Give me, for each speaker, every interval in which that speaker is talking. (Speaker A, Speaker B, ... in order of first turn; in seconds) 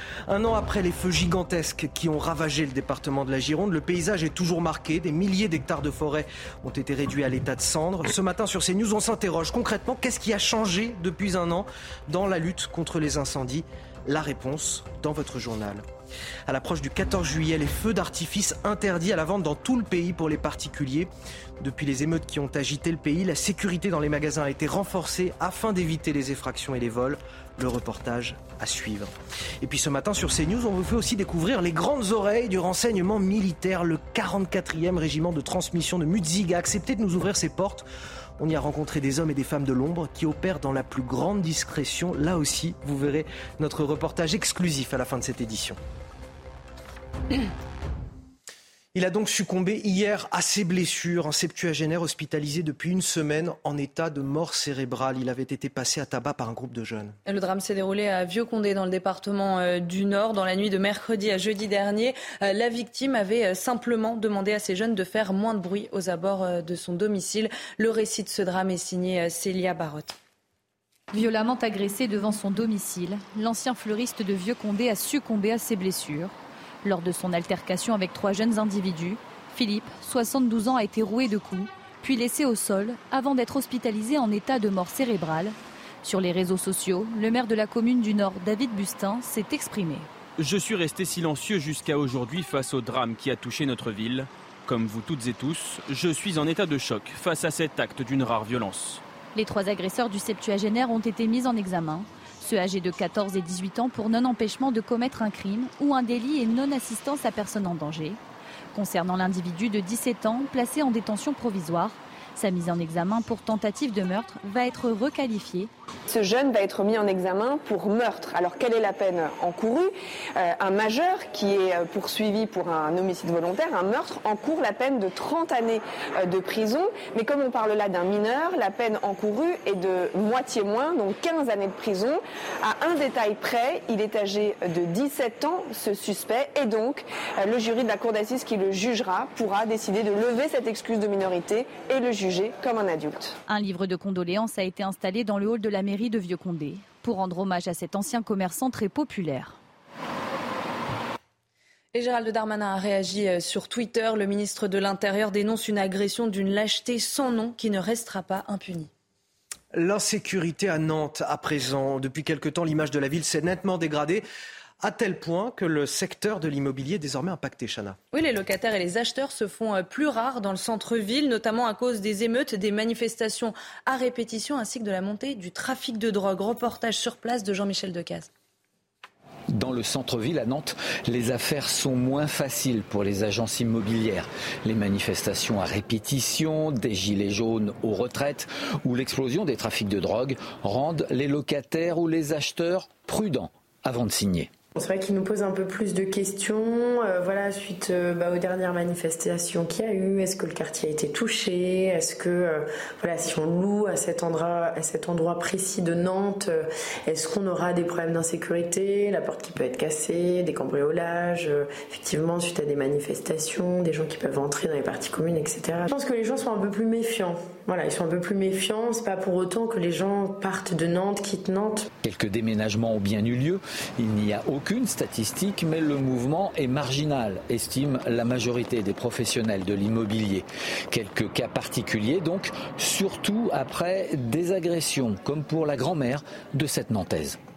Speaker A: 0.3-15.8, 16.5-37.9, 38.4-45.8, 48.9-57.1, 159.7-164.2, 164.8-168.0
Speaker B: 57.2-70.2, 151.9-158.9, 168.1-178.3
Speaker C: 71.1-76.3, 76.8-90.1, 99.3-108.2, 108.7-115.7, 143.5-149.6
Speaker D: 90.4-99.0
Speaker E: 116.1-143.3
Speaker F: 179.5-194.5, 222.0-237.4
Speaker G: 194.8-221.8